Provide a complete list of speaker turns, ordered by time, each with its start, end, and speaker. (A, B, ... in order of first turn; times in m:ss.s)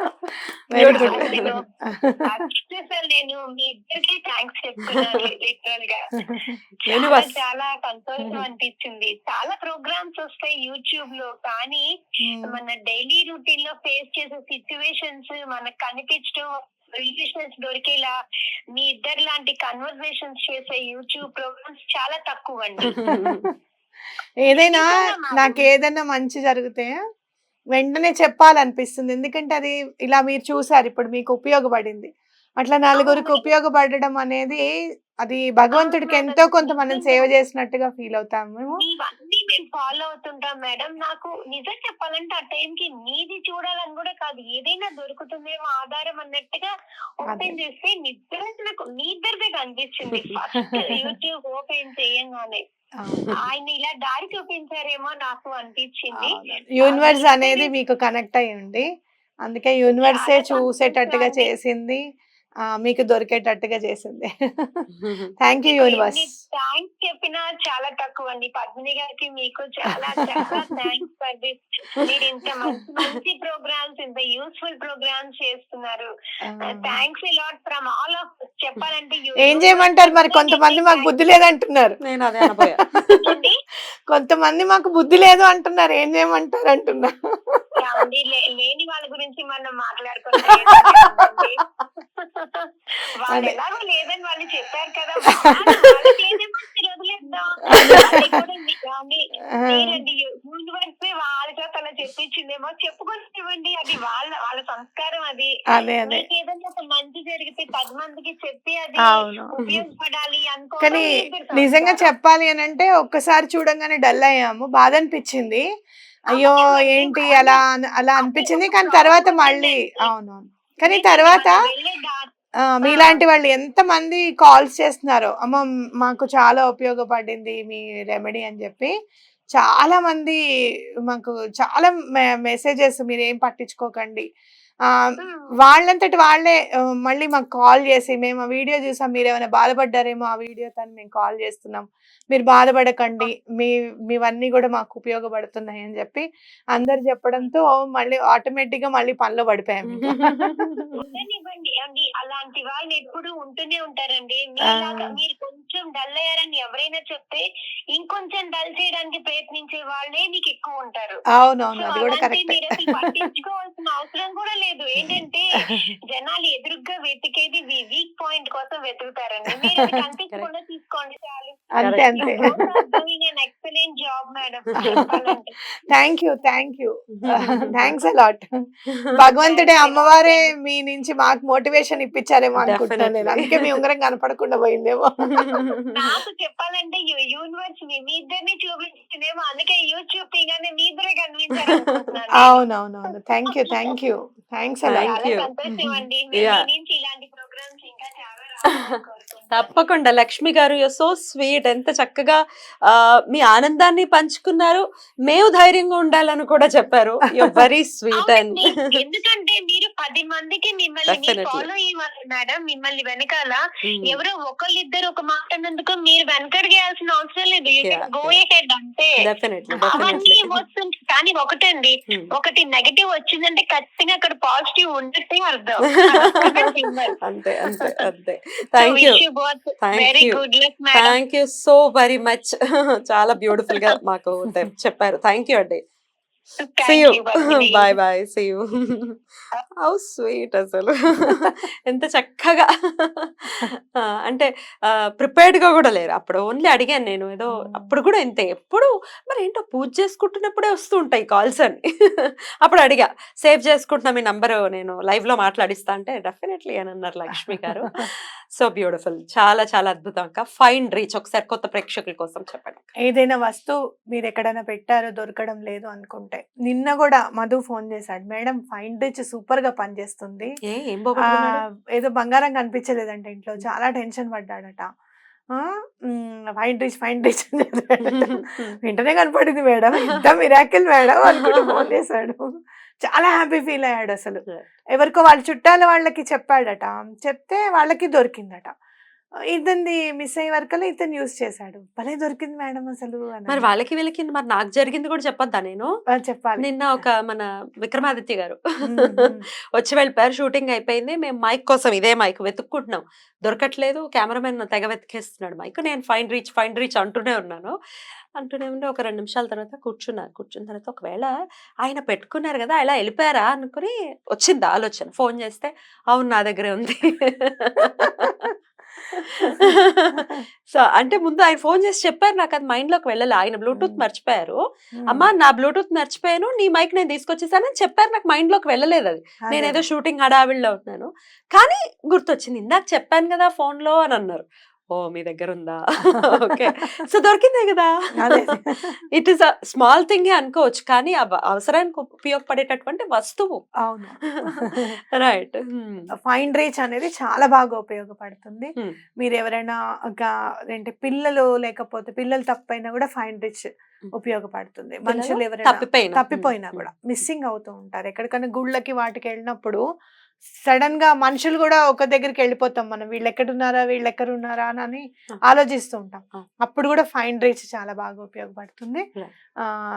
0:00.7-0:02.4 A
0:00.8-0:01.6 B
0:00.8-0:01.6 C
0:02.2-0:06.0 C
0:06.2-0:06.6 A
0:06.9-0:07.4 B
0:06.9-0:11.8 C
0:12.2-0:12.6 A
0:12.4-0:18.1 C
0:18.8-0:23.0 C
0:23.0-0:23.5 B
0:23.1-0:23.5 A
0:24.4-0:27.0 A
0:24.5-0:25.6 C
0:27.8-0:32.1 A
0:32.6-0:34.6 A
0:33.0-0:33.5 C
0:35.2-0:38.8 A
0:35.7-0:37.3 C
0:38.8-0:46.7 C
0:47.2-0:52.6 C
0:47.3-0:47.6 A
0:50.8-0:51.1 A
0:53.0-0:53.4 A
0:53.4-0:57.7 C
0:56.2-0:58.9 A
0:59.4-1:02.0 A
1:00.0-1:01.5 C
1:02.8-1:04.8 A
1:05.0-1:05.3 B
1:05.4-1:06.3 A
1:05.7-1:16.1 C
1:10.2-1:10.5 A
1:16.5-1:17.0 A
1:16.6-1:21.2 C
1:19.4-1:22.0 A
1:22.0-1:23.3 B
1:23.3-1:23.6 C
1:24.1-1:27.7 A
1:27.8-1:31.6 C
1:32.2-1:45.5 C
1:33.3-1:33.6 A
1:37.8-1:38.4 A
1:39.6-1:40.0 A
1:45.7-1:46.2 A
1:46.0-1:52.1 C
1:49.1-1:49.8 A
1:50.8-1:55.6 A
1:56.3-2:01.6 A
1:56.3-1:57.6 C
1:58.2-2:00.1 C
2:00.8-2:02.3 C
2:02.8-2:08.9 A
2:02.8-2:03.2 C
2:09.6-2:10.4 A
2:11.1-2:14.2 A
2:15.2-2:15.6 C
2:15.6-2:30.6 A
2:29.9-2:30.9 B
2:31.0-2:37.4 C
2:34.7-2:35.2 A
2:37.9-2:41.2 C
2:41.4-2:43.1 A
2:41.8-2:45.5 C
2:46.1-2:55.6 C
2:51.8-2:52.6 A
2:51.8-2:52.6 B
2:54.8-2:55.1 B
2:55.9-2:58.4 A
2:57.2-2:58.0 B
2:59.2-3:05.6 A
2:59.4-3:00.5 C
3:02.6-3:03.8 B
3:05.9-3:12.6 C
3:12.4-3:15.2 A
3:13.5-3:13.9 C
3:14.9-3:16.6 B
3:15.0-3:19.7 C
3:19.5-3:28.9 B
3:28.2-3:39.1 C
3:31.1-3:31.7 B
3:33.8-3:34.2 B
3:37.8-3:38.4 B
3:39.2-3:40.6 B
3:39.8-3:40.2 A
3:39.9-3:47.9 C
3:46.1-3:46.4 B
3:47.2-3:49.2 B
3:48.8-3:51.2 C
3:49.8-3:50.4 B
3:50.9-3:52.6 B
3:53.1-3:55.8 B
3:56.6-3:57.9 C
3:56.9-3:59.2 B
3:59.8-4:03.7 B
4:05.2-4:22.9 B
4:07.6-4:08.0 A
4:23.0-4:30.5 A
4:30.7-4:31.6 B
4:31.3-4:34.9 A
4:35.5-4:42.5 A
4:38.1-4:38.7 B
4:41.4-4:41.9 B
4:43.0-4:44.4 A
4:45.0-4:48.7 A
4:49.5-4:53.6 A
4:53.5-4:55.9 B
4:56.1-4:56.7 A
4:56.6-5:07.8 B
4:58.9-4:59.5 A
5:08.4-5:11.3 B
5:11.8-5:18.5 B
5:19.1-5:24.6 B
5:19.6-5:20.4 A
5:23.7-5:24.0 A
5:25.0-5:25.3 A
5:25.1-5:38.5 B
5:29.4-5:29.8 A
5:38.2-5:38.9 A
5:39.1-5:43.6 B
5:43.8-5:44.9 A
5:44.4-5:46.1 B
5:46.2-5:59.8 A
5:55.1-5:56.9 B
6:00.6-6:09.0 A